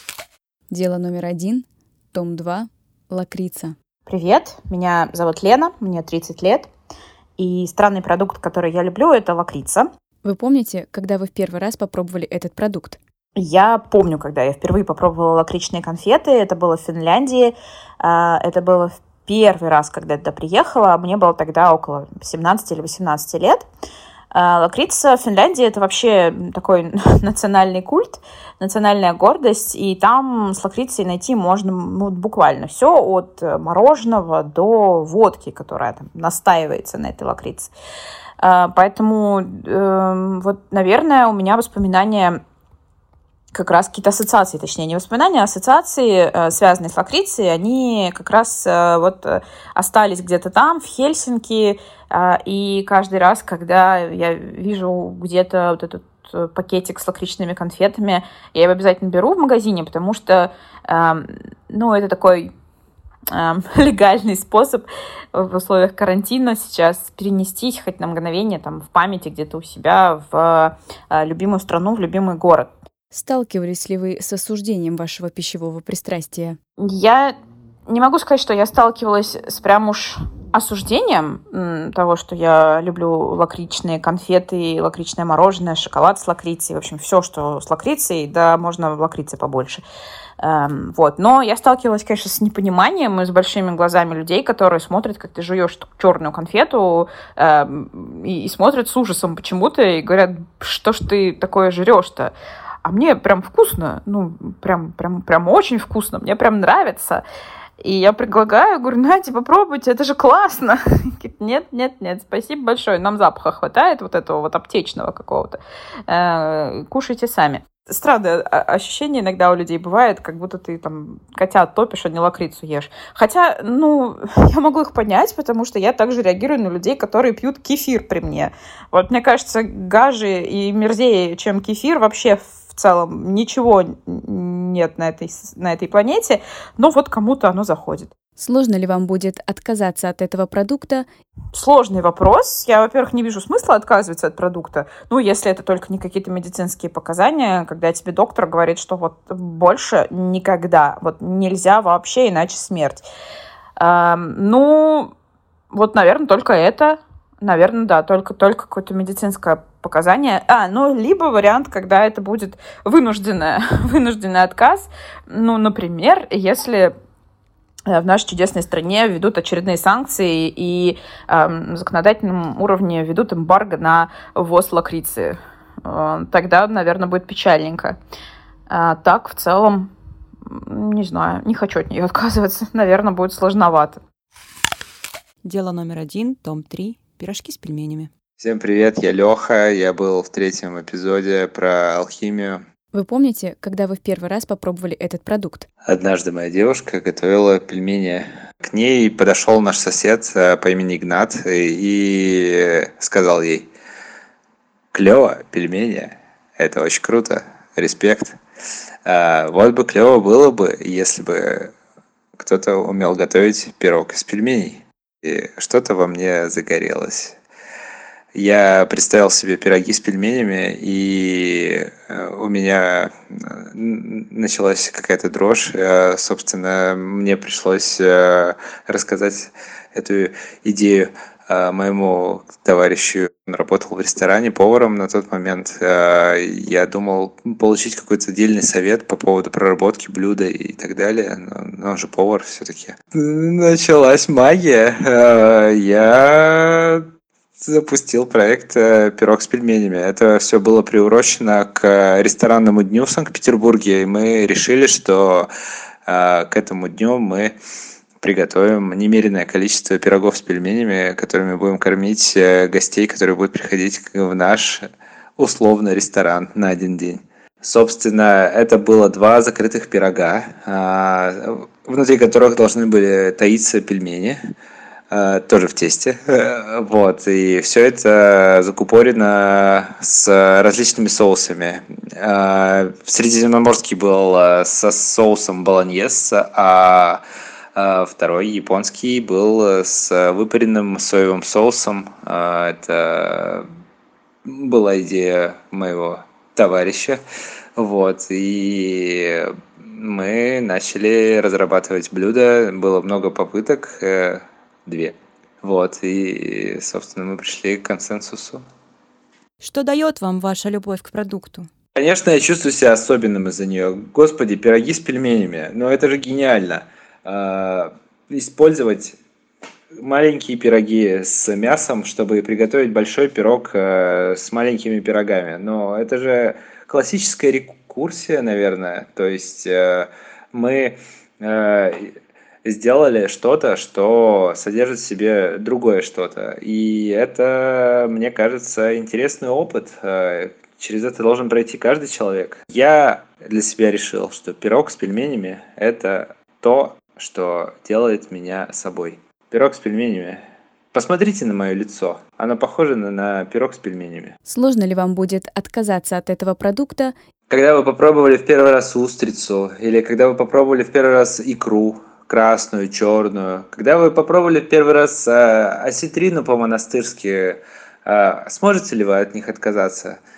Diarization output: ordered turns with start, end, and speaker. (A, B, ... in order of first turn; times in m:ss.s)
0:00.7-0:03.8 A
0:04.0-0:06.7 B
0:07.4-0:09.9 B
0:10.2-0:13.0 A
0:13.3-0:23.7 B
0:24.3-0:37.7 B
0:38.4-0:42.4 B
0:43.5-1:02.5 B
1:03.3-1:12.8 B
1:13.1-1:16.6 A
1:16.8-1:17.4 B
1:17.9-1:29.8 B
1:30.4-1:47.2 B
1:47.8-2:18.1 B
2:18.4-2:21.1 A
2:21.5-2:33.0 B
2:33.8-2:35.1 B
2:35.7-2:46.9 B
2:47.9-2:58.0 B
2:58.7-2:59.9 B
3:00.4-3:04.0 B
3:05.4-3:08.1 C
3:08.4-3:12.6 D
3:12.9-3:15.7 A
3:15.8-3:23.7 D
3:24.9-3:28.4 D
3:29.0-3:31.7 D
3:32.4-3:37.4 D
3:38.3-4:07.1 D
4:07.6-4:15.5 D
4:16.1-4:17.6 D
4:18.2-4:34.4 D
4:35.1-4:47.2 D
4:47.7-4:53.7 D
4:54.4-4:57.2 D
4:57.8-5:08.6 D
5:09.6-5:11.7 C
5:11.9-5:19.2 D
5:19.9-5:54.3 D
5:54.4-5:57.1 A
5:57.5-6:10.2 D